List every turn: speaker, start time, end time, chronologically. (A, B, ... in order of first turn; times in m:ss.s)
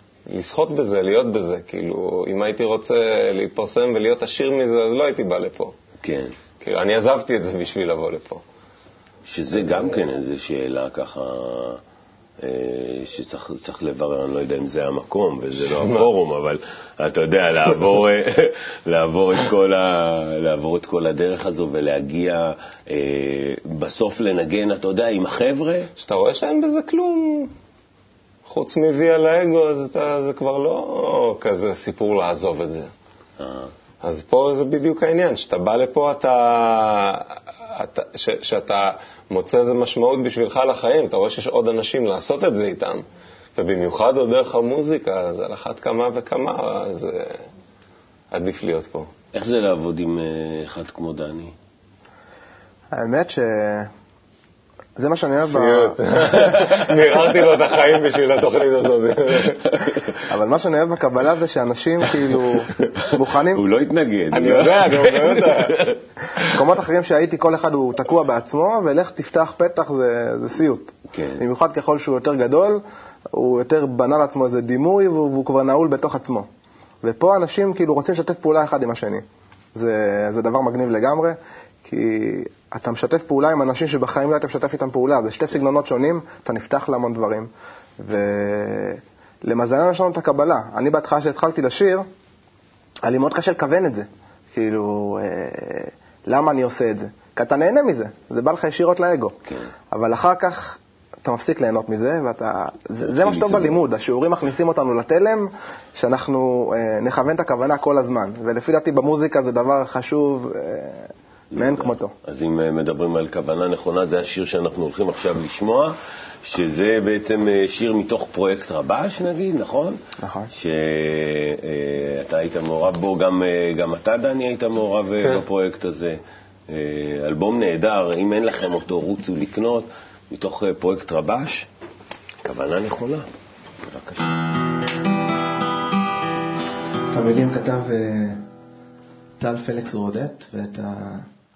0:00.3-0:05.7 A
0:06.0-0:06.3 B
0:06.6-0:08.4 A
0:09.2-0:11.8 B
0:12.4-0:25.9 B
0:15.7-0:16.1 A
0:26.0-0:27.5 A
0:28.4-0:32.9 A
0:33.4-0:33.7 B
0:34.0-0:43.0 A
0:43.5-0:47.4 A
0:48.3-0:49.1 A
0:49.3-0:51.5 B
0:52.9-0:53.9 C
0:55.0-0:56.0 C
0:55.5-1:00.0 A
1:00.3-1:03.6 C
1:03.5-1:06.0 B
1:04.3-1:05.8 A
1:06.5-1:12.8 C
1:11.1-1:11.4 B
1:13.3-1:16.5 C
1:17.0-1:19.2 C
1:19.7-1:32.1 C
1:33.0-1:39.4 C
1:39.9-1:52.1 C
1:43.1-1:43.8 B
1:51.5-2:00.0 B
2:00.2-2:00.5 C
2:00.5-2:11.7 B
2:12.4-2:13.2 B
2:13.8-2:14.3 B
2:17.1-2:18.4 C
2:19.4-2:21.3 C